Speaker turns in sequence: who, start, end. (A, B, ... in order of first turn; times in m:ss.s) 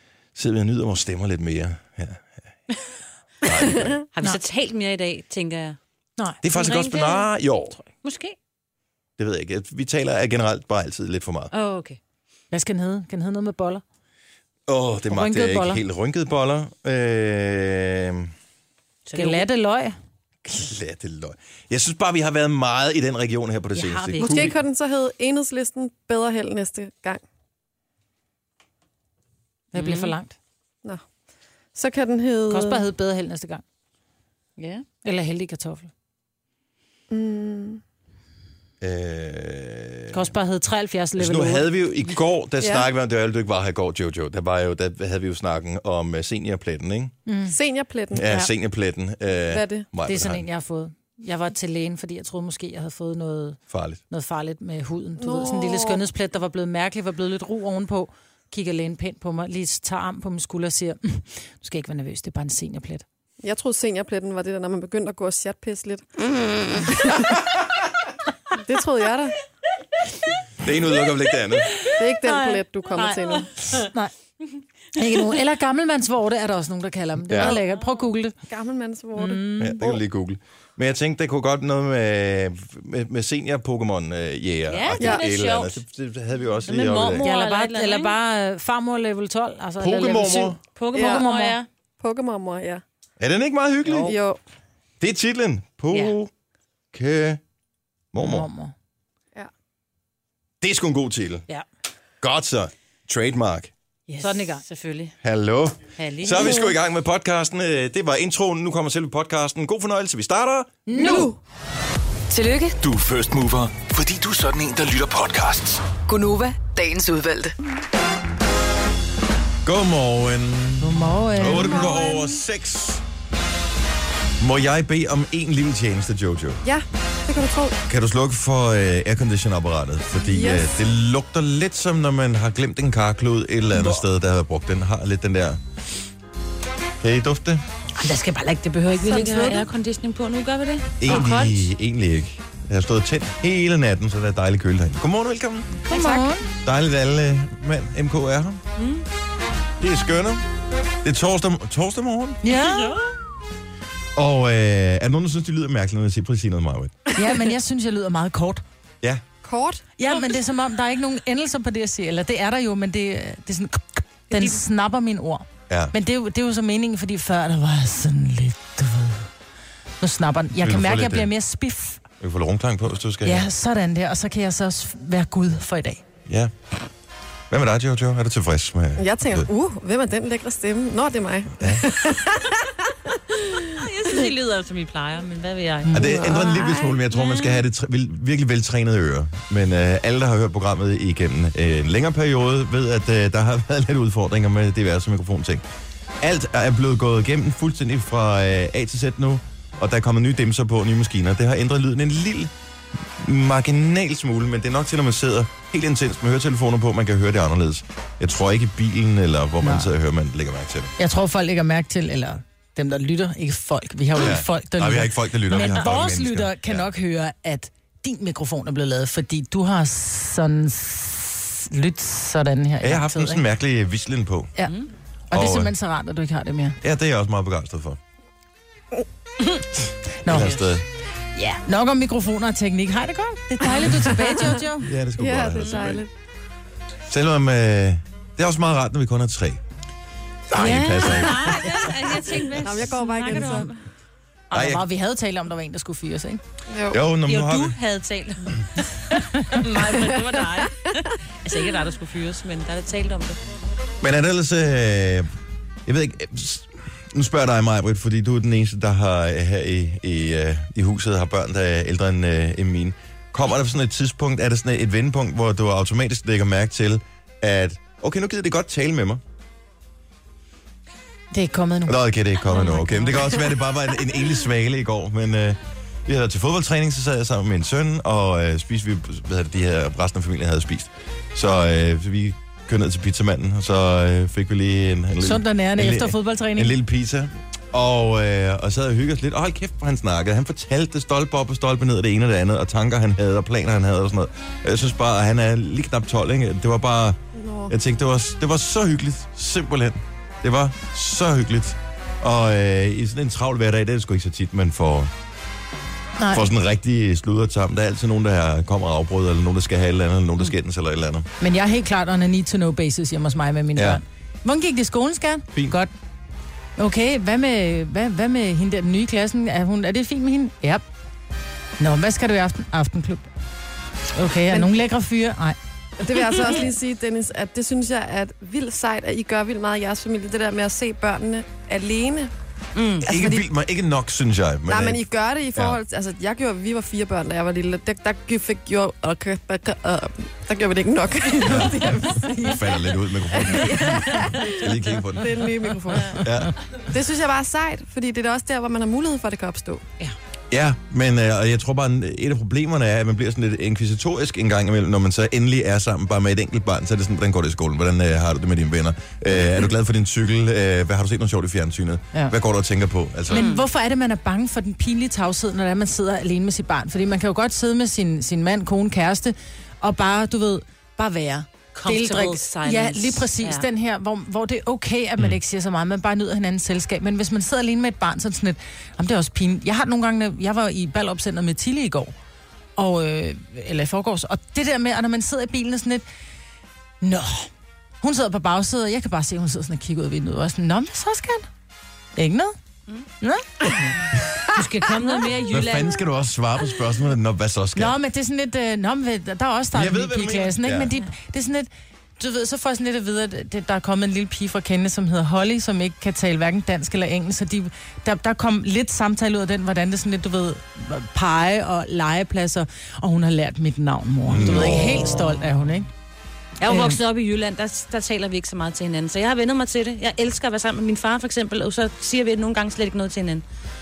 0:00.3-0:02.4 A
0:03.4-0:04.0 A
0:04.1-0:05.8 B
0:06.2-0:06.4 C
0:06.4-0:07.8 A
0:06.5-0:07.3 B
0:07.8-0:08.4 B
0:09.2-0:11.5 A
0:11.5-0:12.0 B
0:12.5-0:13.8 C
0:14.7-0:18.3 A
0:15.1-0:15.8 C
0:19.0-0:19.4 B
0:19.1-0:20.0 C
0:20.4-0:24.6 A
0:23.8-0:24.5 B
0:24.2-0:27.2 D
0:29.7-0:30.3 C
0:29.7-0:30.1 B
0:31.7-0:32.9 D
0:32.5-0:33.6 C
0:34.6-0:34.8 B
0:35.0-0:35.9 C
0:37.1-0:37.8 D
0:38.8-0:40.3 A
0:40.1-0:41.6 C
0:41.2-0:47.1 A
0:42.6-0:42.8 D
0:47.2-0:47.5 C
0:47.5-0:48.3 D
0:48.1-0:50.4 A
0:49.4-0:49.9 D
0:50.0-0:53.6 C
0:53.7-0:54.0 A
0:54.1-1:03.0 C
0:55.2-0:56.0 D
1:03.4-1:07.5 D
1:08.5-1:09.4 D
1:10.6-1:11.7 A
1:11.8-1:14.1 C
1:12.0-1:13.5 D
1:14.9-1:18.3 C
1:17.3-1:17.6 A
1:18.5-1:19.6 D
1:19.2-1:20.0 C
1:19.6-1:27.2 A
1:24.7-1:25.8 B
1:26.6-1:28.1 B
1:27.2-1:31.6 C
1:29.8-1:30.6 A
1:30.7-1:31.7 B
1:30.9-1:31.2 D
1:32.0-1:32.8 D
1:33.2-1:34.2 A
1:34.0-1:34.4 D
1:35.0-1:36.3 A
1:36.9-1:37.4 A
1:38.1-1:38.5 A
1:38.2-1:38.7 C
1:40.6-1:41.4 A
1:42.2-1:43.7 A
1:44.1-1:45.1 B
1:44.2-1:44.6 C
1:45.2-1:50.8 A
1:46.0-1:46.6 B
1:46.4-1:46.6 D
1:50.9-1:51.3 C
1:50.9-1:51.4 D
1:52.3-1:52.8 E
1:52.8-1:55.9 F
1:56.0-1:57.5 E
1:59.6-2:03.0 A
2:00.8-2:02.3 C
2:04.4-2:06.6 A
2:06.6-2:07.8 D
2:07.9-2:15.6 A
2:10.1-2:10.8 D
2:17.0-2:17.6 A
2:18.0-2:21.7 B
2:19.0-2:19.6 C
2:21.0-2:25.8 A
2:25.9-2:26.4 C
2:25.9-2:26.3 D
2:26.6-2:28.6 A
2:28.8-2:29.0 B
2:29.8-2:30.4 A
2:31.0-2:32.4 A
2:32.4-2:33.0 C
2:32.5-2:33.1 B
2:34.2-2:37.0 A
2:37.2-2:38.6 C
2:39.4-2:39.8 D
2:40.0-2:49.3 C
2:44.3-2:44.6 B
2:45.7-2:45.9 A
2:50.0-2:52.0 C
2:50.6-2:51.3 A
2:52.2-2:53.5 A
2:53.2-2:56.0 C
2:56.3-2:56.5 A
2:57.5-2:59.5 A
2:59.0-3:03.7 D
3:01.6-3:01.8 A
3:03.7-3:06.4 B
3:05.8-3:06.7 C
3:05.9-3:15.6 A
3:07.1-3:07.6 B
3:16.2-3:22.5 A
3:23.1-3:30.9 A
3:29.6-3:29.9 C
3:31.0-3:43.4 C
3:34.2-3:36.8 A
3:42.8-3:44.5 A
3:45.3-3:46.8 C
3:45.3-3:45.7 A
3:46.8-3:48.0 A
3:50.2-3:50.5 C
3:50.2-3:50.8 A
3:50.3-3:50.6 B
3:51.4-3:54.9 C
3:54.0-3:54.6 D
3:54.8-3:56.0 A
3:55.2-3:56.1 D
3:55.6-3:55.9 B
3:57.1-3:59.6 A
4:00.5-4:01.9 A
4:00.5-4:01.5 C
4:00.9-4:03.8 B
4:02.5-4:03.7 D
4:03.3-4:03.6 C
4:04.5-4:04.8 A
4:04.5-4:06.4 C
4:06.7-4:07.0 D
4:06.9-4:07.8 A
4:07.2-4:13.4 B
4:14.0-4:15.3 A
4:15.8-4:29.2 A
4:31.3-4:32.0 C
4:31.8-5:05.1 A
4:32.5-4:33.3 B
4:32.7-4:33.1 C
4:45.2-4:46.8 C
4:57.3-4:57.7 D
5:06.2-5:06.4 C
5:06.3-5:11.3 A
5:11.4-5:15.9 C
5:13.8-5:14.0 A
5:16.8-5:20.8 C
5:21.8-5:23.3 C
5:24.2-5:25.6 C
5:26.0-5:32.3 D
5:32.7-5:33.0 B
5:33.0-5:35.0 A
5:33.0-5:33.4 D
5:34.7-5:46.3 D
5:35.5-5:35.8 A
5:41.4-5:45.4 A
5:46.0-5:46.5 A
5:46.9-5:49.8 D
5:50.5-6:03.5 A
6:03.3-6:22.1 C
6:03.3-6:03.7 B
6:11.7-6:13.7 B
6:22.8-6:26.0 C
6:27.0-6:27.5 C
6:28.0-6:31.5 C
6:32.2-6:32.5 C
6:34.5-6:36.0 B
6:35.5-6:37.9 A
6:37.7-6:55.9 C
6:39.7-6:40.9 A
6:54.3-6:55.2 A
6:54.4-6:55.3 B
6:56.6-7:03.4 B
6:56.6-6:57.0 C